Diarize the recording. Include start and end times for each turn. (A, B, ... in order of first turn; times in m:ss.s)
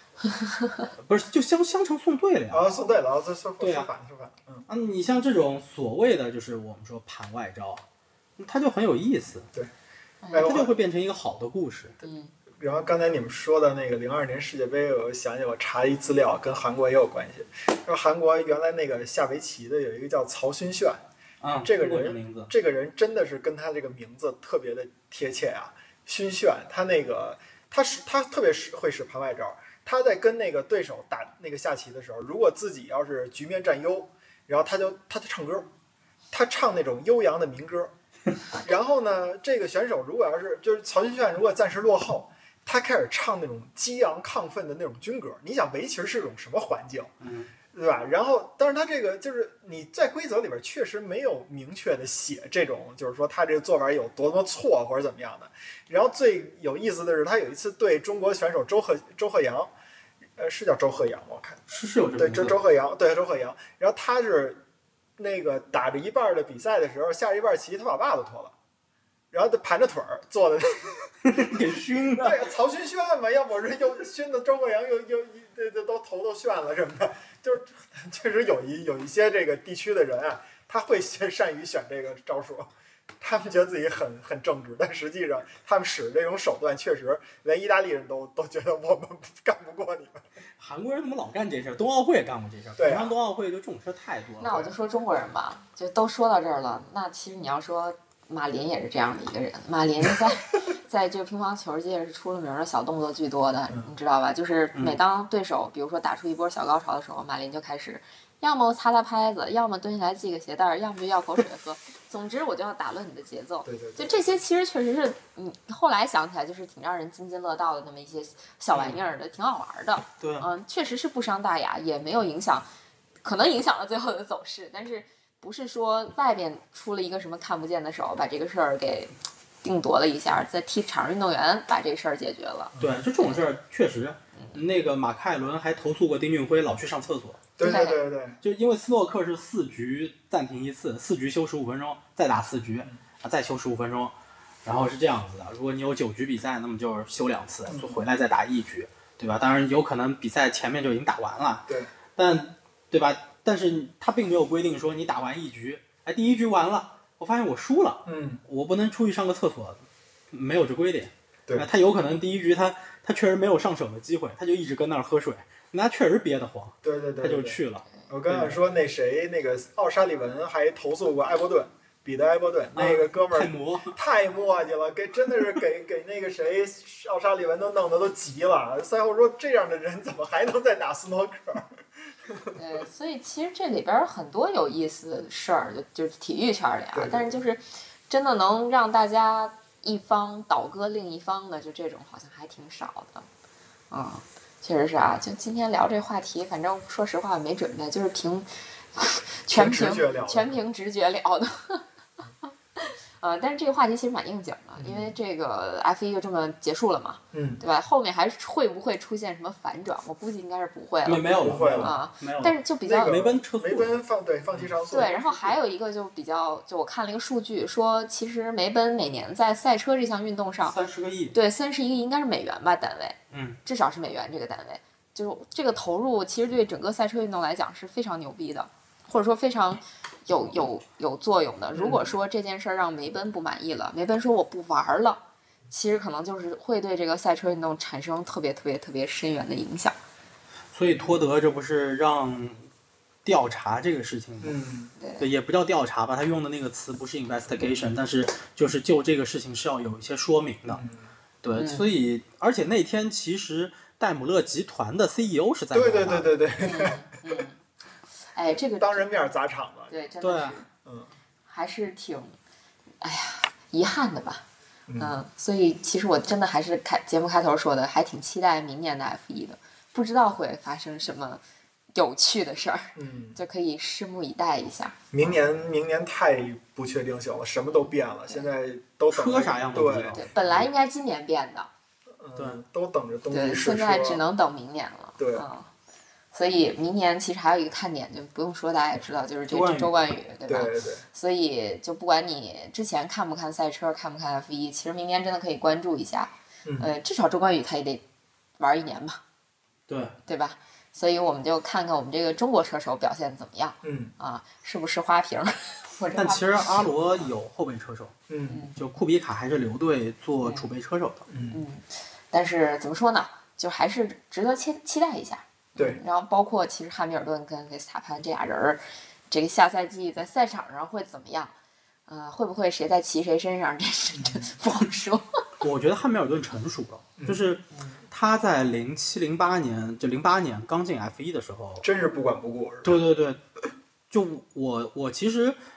0:00.3-0:00.9 A
0:01.0-0:02.7 B
0:02.5-0:04.7 C
0:03.6-0:03.9 B
0:04.7-0:07.8 B
0:08.4-0:09.5 B
0:10.2-0:10.5 A
0:10.3-0:10.7 C
0:10.4-0:12.0 B
0:12.0-0:12.3 A
0:12.6-0:21.0 C
0:21.4-0:22.5 B
0:21.6-0:35.7 C
0:36.3-0:37.9 C
0:38.5-0:47.1 C
0:47.2-0:47.5 B
0:47.7-0:59.7 C
1:00.4-1:01.6 C
1:01.7-1:02.6 B
1:02.2-1:04.6 C
1:05.2-1:08.5 C
1:09.3-1:11.2 C
1:11.2-1:12.5 B
1:12.2-1:30.2 C
1:30.6-1:34.7 B
1:32.8-1:33.2 C
1:34.4-2:02.7 A
1:44.8-1:45.0 B
1:53.6-1:54.2 C
2:00.2-2:00.5 B
2:03.2-2:13.4 A
2:12.8-2:17.5 B
2:17.6-2:18.4 C
2:17.6-2:18.0 A
2:18.4-2:24.1 B
2:24.6-2:48.6 B
2:27.7-2:28.0 C
2:38.0-2:38.4 C
2:46.8-3:02.5 C
2:52.8-2:54.0 B
3:02.6-3:13.3 A
3:06.9-3:07.4 C
3:13.9-3:21.8 A
3:19.5-3:20.6 C
3:22.8-3:33.2 A
3:24.8-3:25.1 C
3:27.3-3:27.6 C
3:31.0-3:34.0 B
3:31.4-3:32.0 C
3:32.8-3:35.6 C
3:34.9-3:40.8 A
3:40.7-3:41.4 B
3:41.3-4:00.0 A
3:43.3-3:43.6 B
3:51.7-3:52.1 C
4:00.7-4:02.7 B
4:03.2-4:04.6 B
4:04.4-4:04.9 C
4:05.0-4:05.2 A
4:05.2-4:10.8 B
4:10.7-4:11.1 C
4:11.4-4:16.4 B
4:11.6-4:11.9 A
4:15.7-4:17.1 C
4:16.6-4:17.6 A
4:18.3-4:19.1 A
4:18.8-4:19.9 C
4:19.9-4:20.7 A
4:20.2-4:20.6 B
4:20.8-4:21.1 C
4:21.5-4:22.4 A
4:23.0-4:24.4 A
4:24.9-4:25.2 C
4:25.0-4:31.4 A
4:32.0-4:35.0 A
4:33.0-4:33.4 C
4:35.1-4:40.3 C
4:39.1-4:40.6 B
4:40.2-4:41.7 A
4:42.2-4:44.2 C
4:42.4-4:42.6 B
4:43.3-4:45.7 A
4:45.2-4:45.4 C
4:46.3-4:58.0 A
4:49.5-4:49.9 B
4:50.5-4:51.0 C
4:58.6-4:59.2 A
4:59.9-5:00.2 B
5:00.3-5:07.3 A
5:03.8-5:04.1 C
5:06.2-5:08.2 B
5:08.3-5:08.6 C
5:08.5-5:08.8 A
5:08.8-5:11.2 B
5:10.4-5:10.7 A
5:11.3-5:11.6 C
5:11.5-5:21.5 A
5:22.1-5:25.3 A
5:24.2-5:24.5 C
5:25.6-5:31.8 B
5:27.2-5:28.0 C
5:31.8-5:33.0 C
5:32.8-5:33.4 B
5:34.1-5:35.6 B